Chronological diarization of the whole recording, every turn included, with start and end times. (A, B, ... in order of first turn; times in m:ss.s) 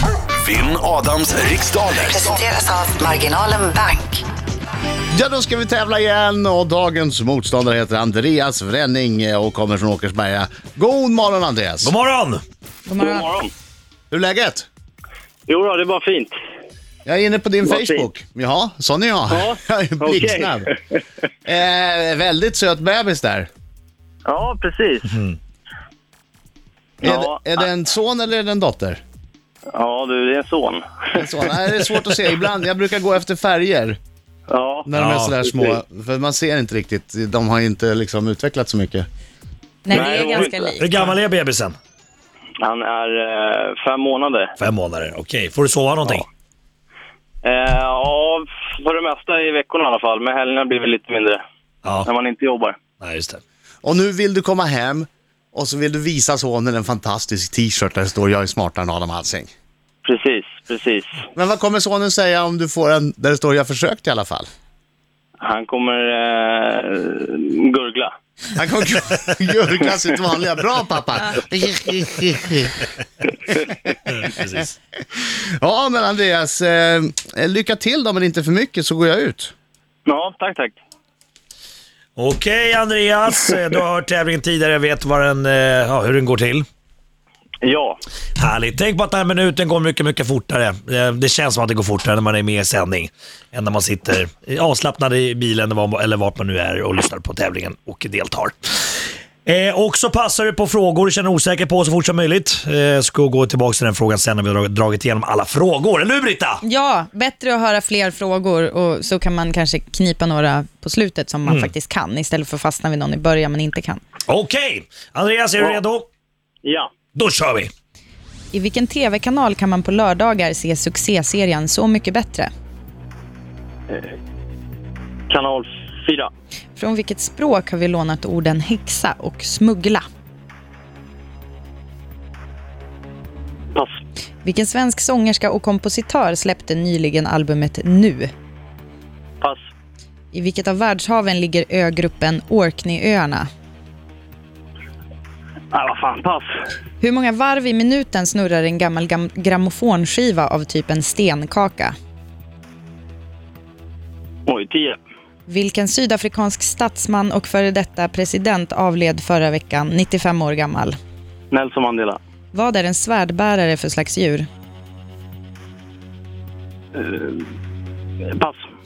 0:00.4-0:02.4 A
0:02.1-0:04.2 B
0:05.1-0:11.9 C
0:11.8-0:12.4 D
0:12.9-0:13.3 E
0:13.0-0:13.5 F
0:14.1-0:14.7 C
0:15.5-0:16.3 F
0:17.0-0:20.7 C
0:17.6-0:18.1 F
0:19.3-0:20.8 F
0:21.5-0:23.5 C
0:24.3-0:25.1 F
0:25.1-0:25.4 D
0:27.0-0:27.7 F
0:27.0-0:29.0 C
0:29.7-0:31.6 F
0:31.2-0:34.0 C
0:34.5-0:34.9 F
0:34.9-0:39.1 C
0:34.9-0:35.3 D
0:35.4-0:35.8 F
0:39.8-0:40.9 E
0:39.9-0:40.7 F
0:39.9-0:41.8 D
0:42.6-0:44.5 F
0:44.6-0:46.2 D
0:47.4-0:51.4 F
0:51.8-0:52.1 D
0:52.0-0:52.8 F
0:53.0-0:53.4 D
0:53.8-0:59.5 C
1:00.0-1:01.2 F
1:01.4-1:04.5 C
1:05.4-1:08.1 F
1:08.6-1:12.8 C
1:14.1-1:14.7 D
1:15.2-1:19.5 C
1:20.1-1:20.8 F
1:22.2-1:26.7 D
1:27.6-1:28.0 F
1:28.4-1:38.6 D
1:39.5-1:46.6 D
1:46.6-1:54.0 E
1:51.4-1:51.7 D
1:54.3-1:56.1 D
1:56.6-1:56.9 F
1:57.2-1:57.7 D
1:58.5-2:02.5 E
2:05.3-2:06.3 F
2:06.8-2:10.0 E
2:14.4-2:18.3 E
2:20.3-2:23.5 E
2:25.7-2:26.5 F
2:27.0-2:31.9 E
2:34.5-2:35.0 F
2:35.5-2:41.0 E
2:41.5-2:42.2 F
2:42.5-2:44.5 E
2:47.0-2:47.4 F
2:48.3-2:48.6 F